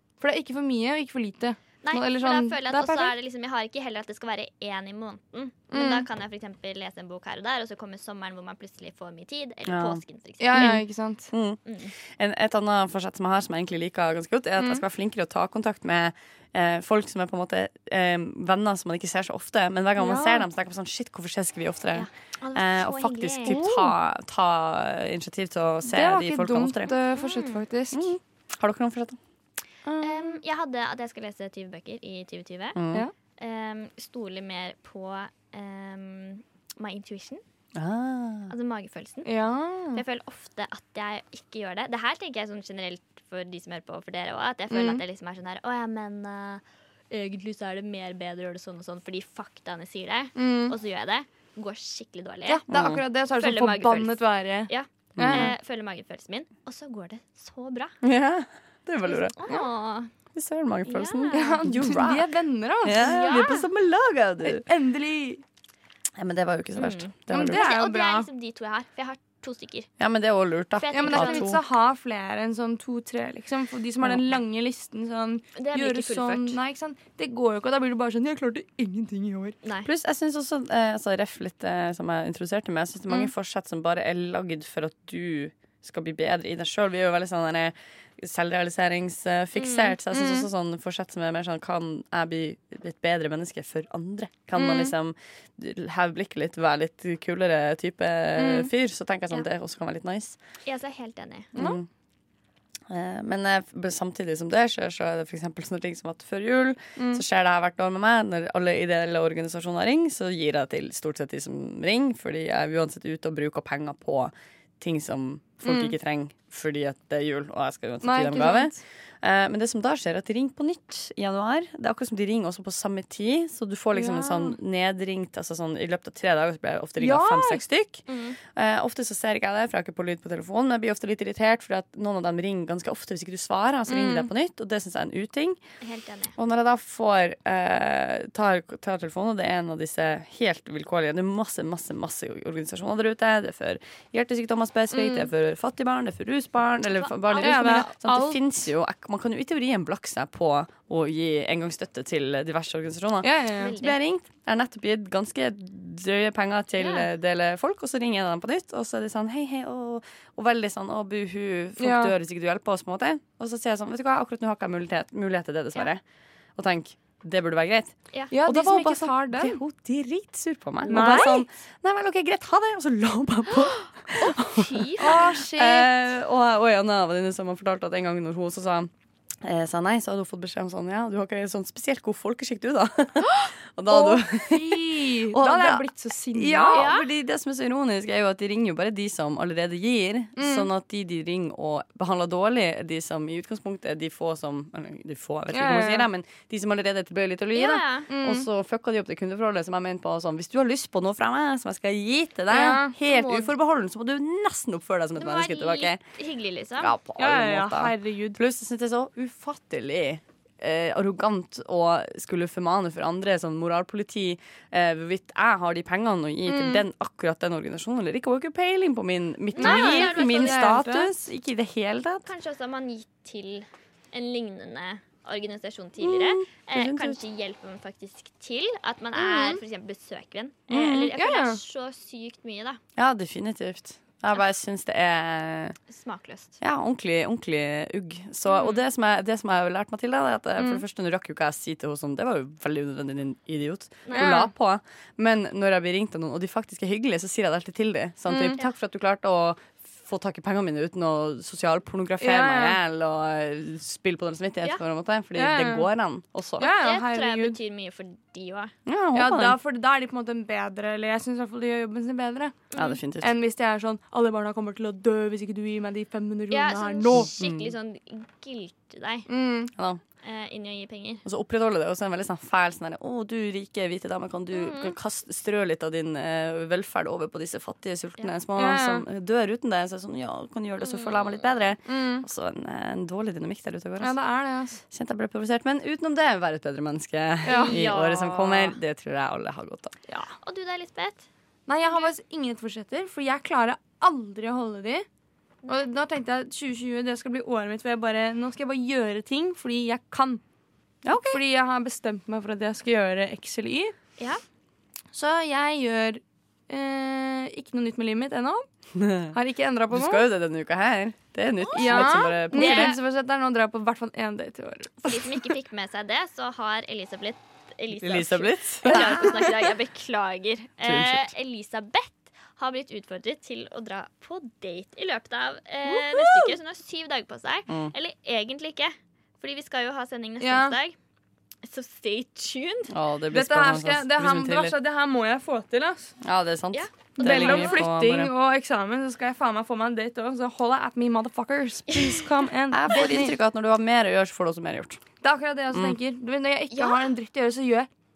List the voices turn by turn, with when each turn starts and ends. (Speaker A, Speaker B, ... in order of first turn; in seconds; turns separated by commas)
Speaker A: 0.2-3.1, Speaker B: 1.8-10.8, Speaker A: 5.7-6.0, Speaker C: 9.7-10.0, Speaker A: 10.4-11.3, Speaker C: 10.5-11.6, Speaker B: 11.7-11.9, Speaker C: 12.2-26.9, Speaker A: 14.6-14.8, Speaker A: 19.9-20.5, Speaker B: 21.9-23.6, Speaker A: 23.4-23.9, Speaker A: 25.9-28.1, Speaker B: 26.9-27.6, Speaker C: 27.9-29.2, Speaker A: 29.8-30.4, Speaker B: 30.0-32.8, Speaker C: 32.7-33.0, Speaker B: 33.4-37.4, Speaker C: 37.7-38.5, Speaker B: 38.5-39.3, Speaker A: 39.2-40.0, Speaker B: 39.9-52.8, Speaker A: 44.7-45.0, Speaker A: 50.3-50.8, Speaker A: 52.5-55.5, Speaker C: 52.7-53.0, Speaker B: 53.3-58.0, Speaker C: 55.1-55.5, Speaker C: 58.0-59.3, Speaker B: 59.0-60.1, Speaker C: 60.3-62.3, Speaker B: 60.9-61.6, Speaker A: 61.3-63.2, Speaker C: 62.8-64.6, Speaker B: 63.0-63.7, Speaker A: 64.4-65.4, Speaker C: 66.2-67.6, Speaker B: 66.8-69.9, Speaker A: 67.3-68.3, Speaker C: 70.0-71.6, Speaker B: 70.8-71.5, Speaker A: 70.9-79.6, Speaker B: 75.5-76.6, Speaker B: 79.6-79.9, Speaker C: 79.8-100.4, Speaker B: 89.5-89.9, Speaker A: 90.1-90.5, Speaker A: 94.5-94.9, Speaker A: 98.3-98.7, Speaker B: 100.7-101.5, Speaker C: 101.5-101.9, Speaker C: 102.9-135.6, Speaker A: 107.0-107.2, Speaker A: 115.6-115.9, Speaker A: 118.0-118.8, Speaker A: 123.9-124.5, Speaker A: 127.0-127.6, Speaker B: 128.1-128.4, Speaker A: 133.9-134.3, Speaker B: 135.8-136.3, Speaker C: 136.4-166.0, Speaker A: 144.9-145.3, Speaker B: 146.9-147.9, Speaker A: 147.4-148.4, Speaker A: 153.2-153.8, Speaker B: 153.6-154.0, Speaker B: 156.8-157.1, Speaker A: 161.8-162.1, Speaker C: 166.6-178.9, Speaker A: 168.3-169.6, Speaker A: 170.9-171.4, Speaker B: 174.1-175.2, Speaker A: 175.0-175.9, Speaker C: 179.4-185.8, Speaker A: 183.9-186.9, Speaker C: 186.3-206.0, Speaker B: 186.7-187.1, Speaker A: 190.4-190.7, Speaker A: 195.5-196.1, Speaker B: 197.5-198.1, Speaker A: 198.1-198.5, Speaker A: 202.5-202.9, Speaker B: 203.1-203.5, Speaker B: 205.2-206.9, Speaker C: 206.8-222.3, Speaker A: 207.2-208.4, Speaker A: 216.5-216.8, Speaker B: 219.5-220.8, Speaker A: 219.6-221.1, Speaker B: 222.2-232.8, Speaker C: 226.0-227.2, Speaker A: 229.2-229.6, Speaker C: 230.7-231.1, Speaker A: 231.1-231.6, Speaker C: 233.0-235.8, Speaker B: 235.9-236.5, Speaker C: 236.6-256.7, Speaker B: 238.5-238.8, Speaker A: 240.6-240.8, Speaker B: 244.0-244.4, Speaker A: 244.1-244.5, Speaker A: 248.2-248.6, Speaker A: 252.2-252.8, Speaker A: 255.3-255.9, Speaker A: 256.6-257.6, Speaker B: 256.6-258.7, Speaker C: 258.9-259.6, Speaker A: 259.1-262.6, Speaker B: 262.7-263.0, Speaker C: 262.8-263.3, Speaker A: 263.2-267.3, Speaker B: 266.5-269.3, Speaker C: 267.1-267.7, Speaker A: 269.3-269.7, Speaker C: 269.8-270.0, Speaker B: 270.2-271.2, Speaker C: 271.2-284.2, Speaker B: 274.5-274.9, Speaker A: 278.6-279.1, Speaker B: 280.8-281.5, Speaker A: 281.9-282.2, Speaker A: 284.0-284.8, Speaker C: 284.9-289.9, Speaker A: 287.4-287.9, Speaker B: 287.5-288.8, Speaker B: 290.4-291.3, Speaker A: 291.7-295.0, Speaker A: 295.6-300.4, Speaker C: 301.0-301.4, Speaker A: 301.1-303.9, Speaker A: 305.1-308.6, Speaker C: 308.9-309.3, Speaker A: 309.3-310.2, Speaker C: 309.9-313.0, Speaker B: 311.6-312.9, Speaker A: 311.8-315.2, Speaker B: 315.0-330.9, Speaker C: 317.9-319.4, Speaker C: 320.8-321.3, Speaker A: 325.9-326.5, Speaker C: 327.7-327.9, Speaker A: 330.4-330.8, Speaker B: 331.6-332.9, Speaker C: 332.9-334.7, Speaker A: 333.3-336.1, Speaker C: 336.2-338.3, Speaker B: 336.7-337.8, Speaker A: 337.2-343.4, Speaker C: 342.7-345.0, Speaker A: 345.2-347.9, Speaker B: 346.7-347.1